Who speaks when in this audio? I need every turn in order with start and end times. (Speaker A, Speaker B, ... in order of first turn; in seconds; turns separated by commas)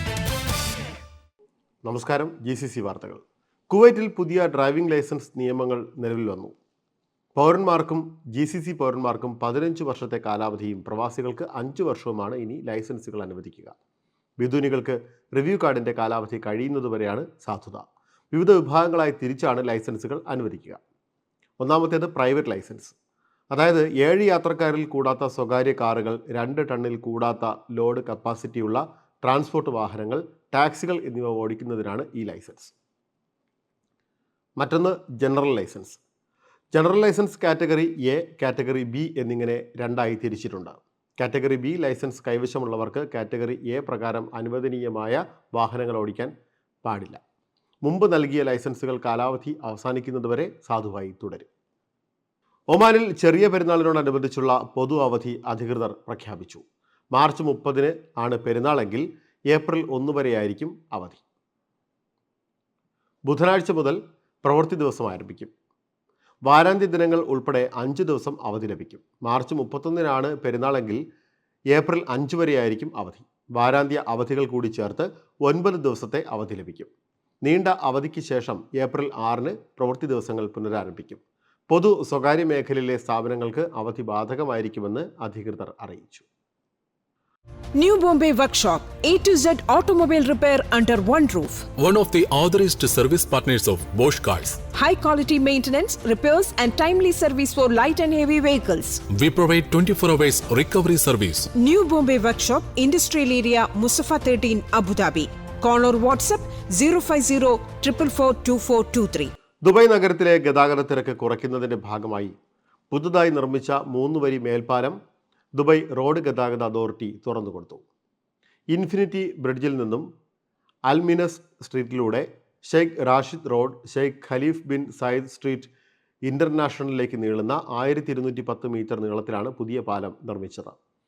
Speaker A: 1.8-6.5, Speaker A: 7.3-13.7, Speaker A: 14.4-20.8, Speaker A: 21.6-22.9, Speaker A: 23.5-32.7, Speaker A: 34.6-36.0, Speaker A: 36.7-46.3, Speaker A: 46.8-47.2, Speaker A: 47.8-51.5, Speaker A: 52.7-61.2, Speaker A: 63.2-65.5, Speaker A: 66.5-71.0, Speaker A: 71.7-76.9, Speaker A: 77.4-86.2, Speaker B: 87.7-91.7, Speaker C: 91.8-94.6, Speaker B: 94.7-99.0, Speaker C: 99.1-101.5, Speaker B: 101.5-109.3, Speaker A: 109.6-112.3, Speaker A: 112.9-115.0, Speaker A: 115.5-117.8, Speaker A: 118.7-120.1, Speaker A: 120.9-125.7, Speaker A: 126.2-130.7